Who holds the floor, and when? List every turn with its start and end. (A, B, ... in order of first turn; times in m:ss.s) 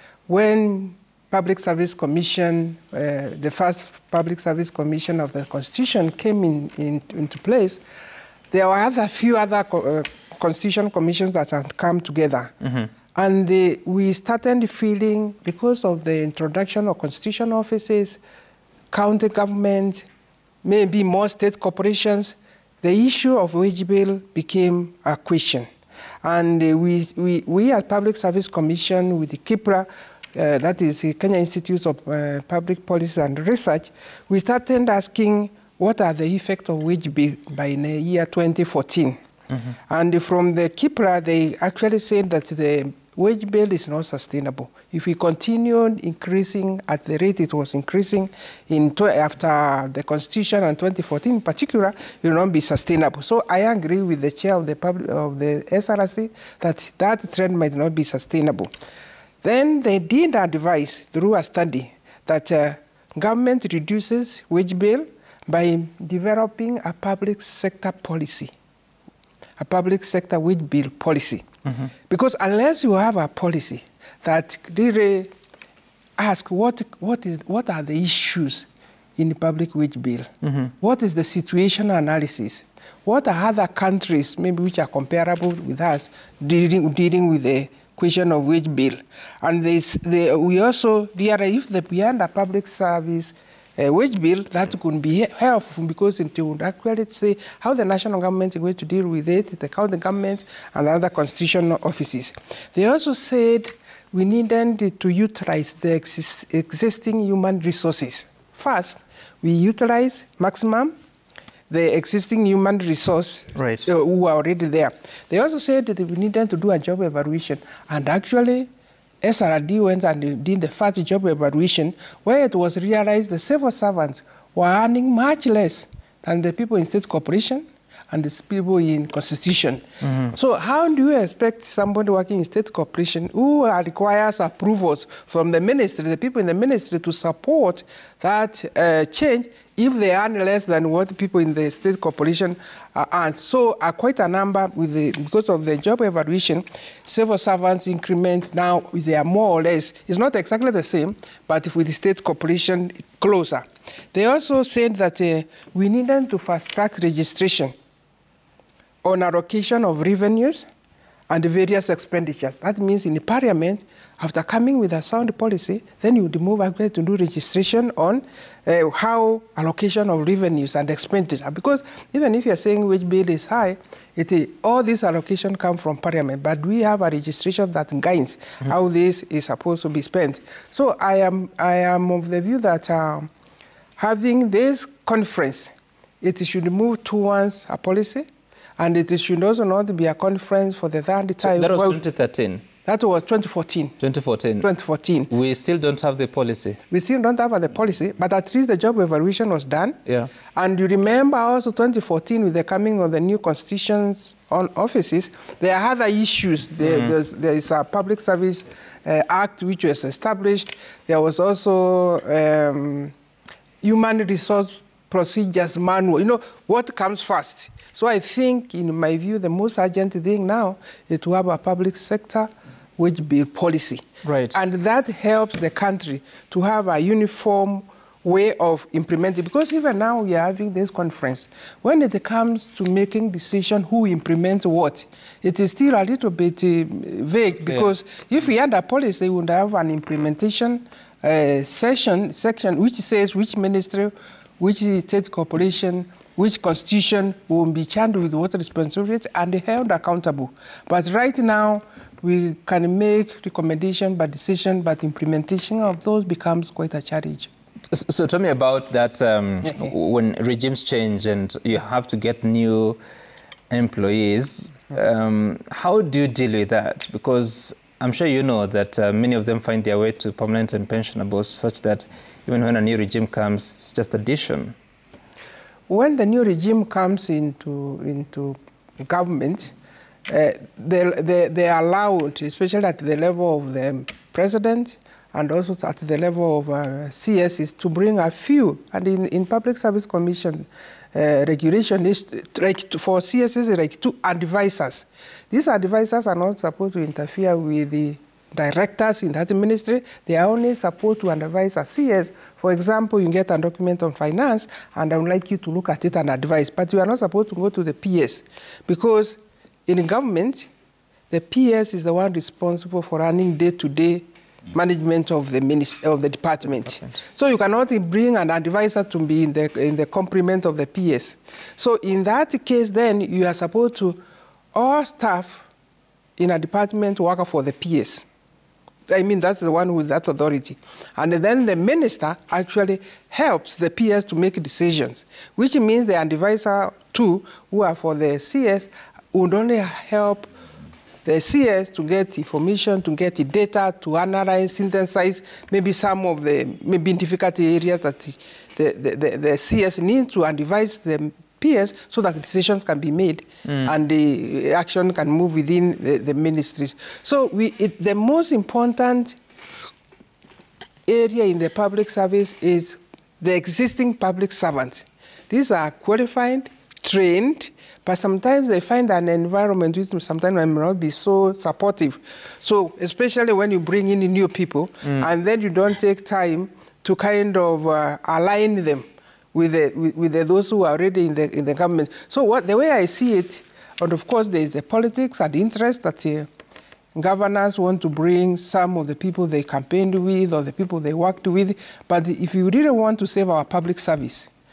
0:00.3-0:07.8 A
0:08.5-0:12.5 A
0:12.6-0:12.9 B
0:13.1-0:18.2 A
0:18.9-0:20.0 A
0:20.6-0:25.7 A
0:26.2-0:39.2 A
0:39.9-0:58.7 A
0:59.4-1:08.5 A
1:09.6-1:11.4 A
1:12.1-1:15.3 A
1:16.2-1:50.9 A
1:51.7-1:58.7 A
1:53.6-1:53.9 B
1:59.2-2:37.7 A
2:10.0-2:10.3 B
2:39.0-2:40.7 A
2:41.3-3:03.3 A
3:04.0-3:12.0 A
3:11.4-3:12.6 B
3:12.8-3:14.0 A
3:14.0-3:14.7 B
3:14.6-3:15.3 A
3:15.3-3:16.8 B
3:16.9-3:20.0 A
3:20.5-3:33.1 A
3:33.8-4:17.5 A
3:44.2-3:44.6 B
4:17.9-4:23.0 B
4:23.7-4:34.8 B
4:35.9-4:39.8 A
4:40.3-5:10.7 A
5:11.3-5:24.2 A
5:24.7-5:25.6 A
5:26.4-5:28.2 A
5:29.1-5:40.5 A
5:41.2-5:59.4 A
5:53.6-5:53.9 B
6:01.1-6:26.5 A
6:27.1-6:34.5 A